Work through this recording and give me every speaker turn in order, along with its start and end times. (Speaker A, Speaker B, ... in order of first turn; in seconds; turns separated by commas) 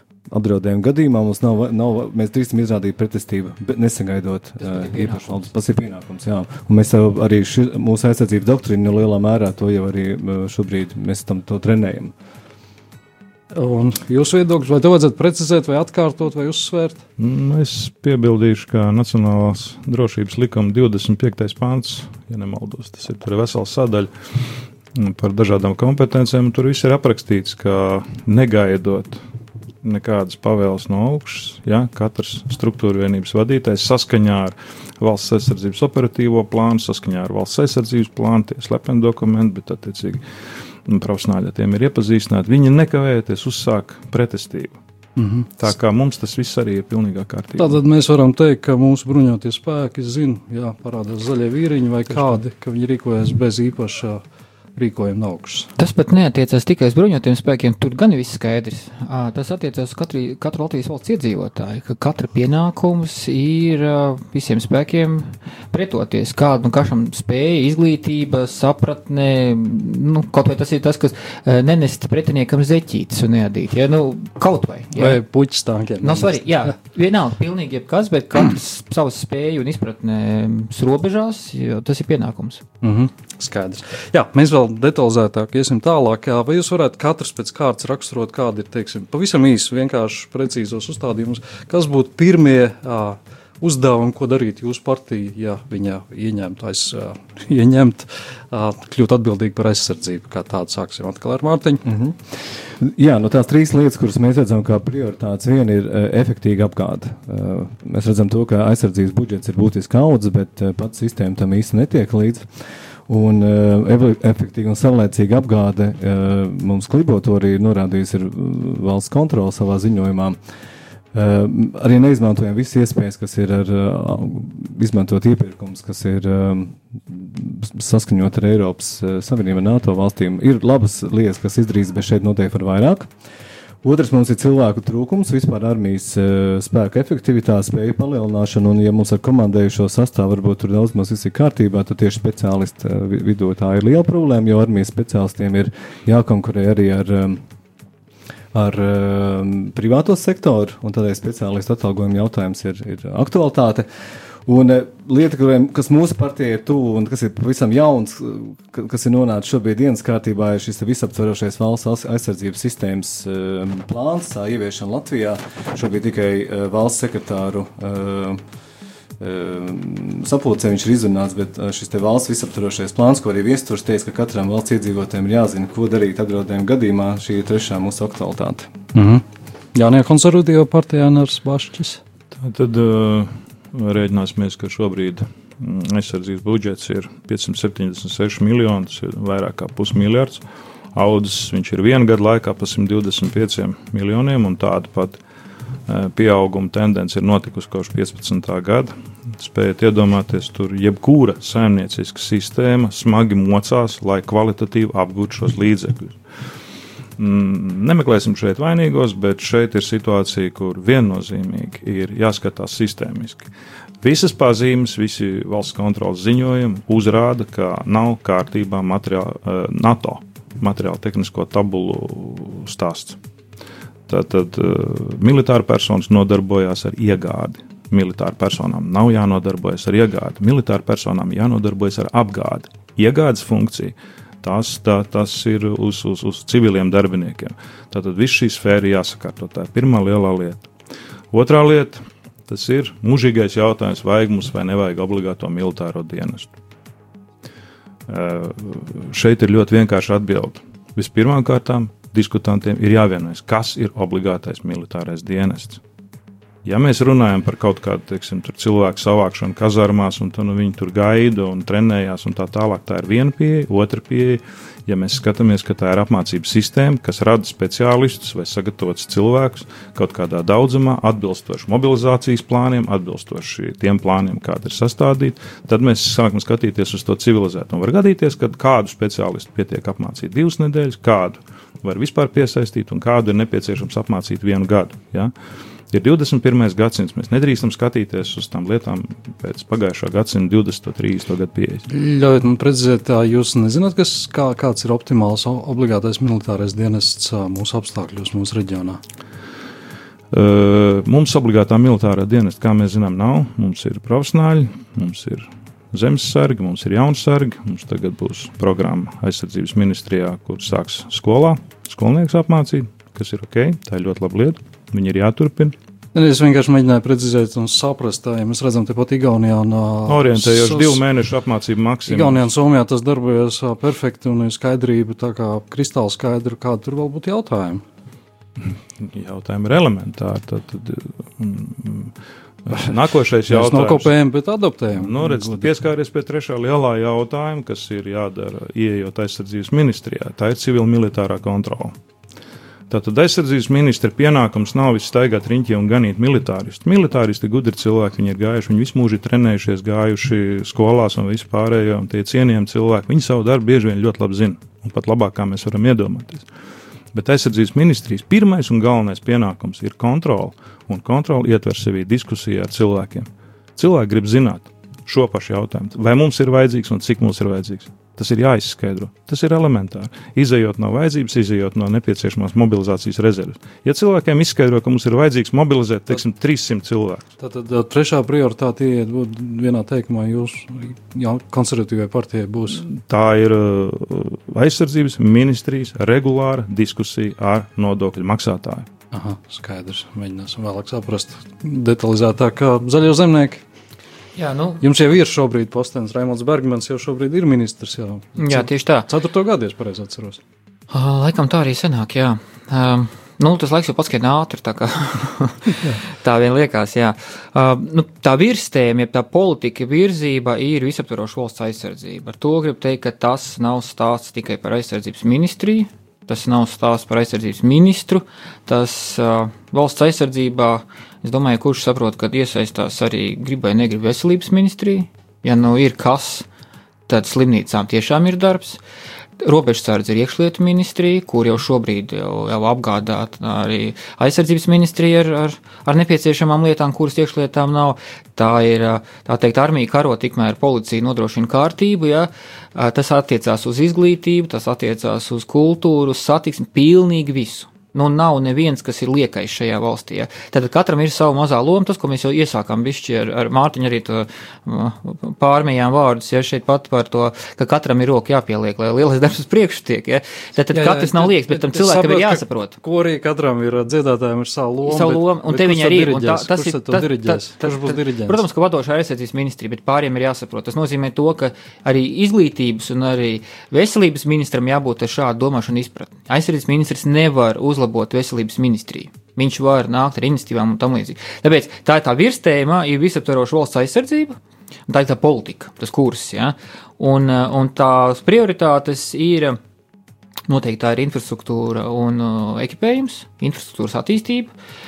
Speaker A: 0.3-12.1, Speaker B: 4.7-5.4, Speaker B: 13.5-17.0, Speaker C: 17.2-29.2, Speaker C: 29.8-40.2, Speaker C: 40.9-44.8, Speaker B: 45.2-45.5, Speaker C: 45.6-47.8, Speaker B: 47.6-54.2, Speaker B: 54.8-55.7, Speaker D: 55.8-75.2, Speaker B: 74.9-76.7, Speaker D: 76.0-82.7, Speaker B: 82.8-101.8, Speaker A: 101.8-112.5, Speaker A: 113.1-120.4, Speaker A: 121.1-133.1, Speaker A: 133.8-147.4, Speaker A: 148.5-153.9, Speaker A: 154.5-168.4, Speaker A: 169.2-178.7, Speaker B: 178.9-179.2, Speaker B: 179.8-182.0, Speaker C: 182.3-190.4, Speaker C: 190.9-195.2, Speaker C: 195.9-206.2, Speaker C: 207.2-213.5, Speaker C: 214.0-223.2, Speaker C: 224.1-240.7, Speaker C: 241.3-246.5, Speaker C: 248.1-255.8, Speaker C: 256.6-285.3, Speaker C: 285.9-291.9, Speaker B: 291.9-299.0, Speaker C: 300.3-315.8, Speaker B: 316.1-321.0, Speaker C: 320.1-322.5, Speaker B: 322.1-327.8, Speaker C: 329.0-332.1, Speaker C: 332.7-334.1, Speaker B: 333.5-335.7, Speaker C: 334.9-341.9, Speaker C: 342.9-356.5, Speaker C: 357.1-377.2, Speaker B: 377.4-382.8, Speaker C: 382.7-388.9, Speaker B: 389.1-393.6, Speaker D: 394.4-394.8, Speaker B: 394.8-400.4, Speaker D: 398.4-399.1, Speaker D: 400.9-426.5, Speaker D: 427.1-428.8, Speaker D: 429.4-462.8, Speaker B: 460.7-468.4, Speaker D: 464.8-489.6, Speaker D: 490.5-494.5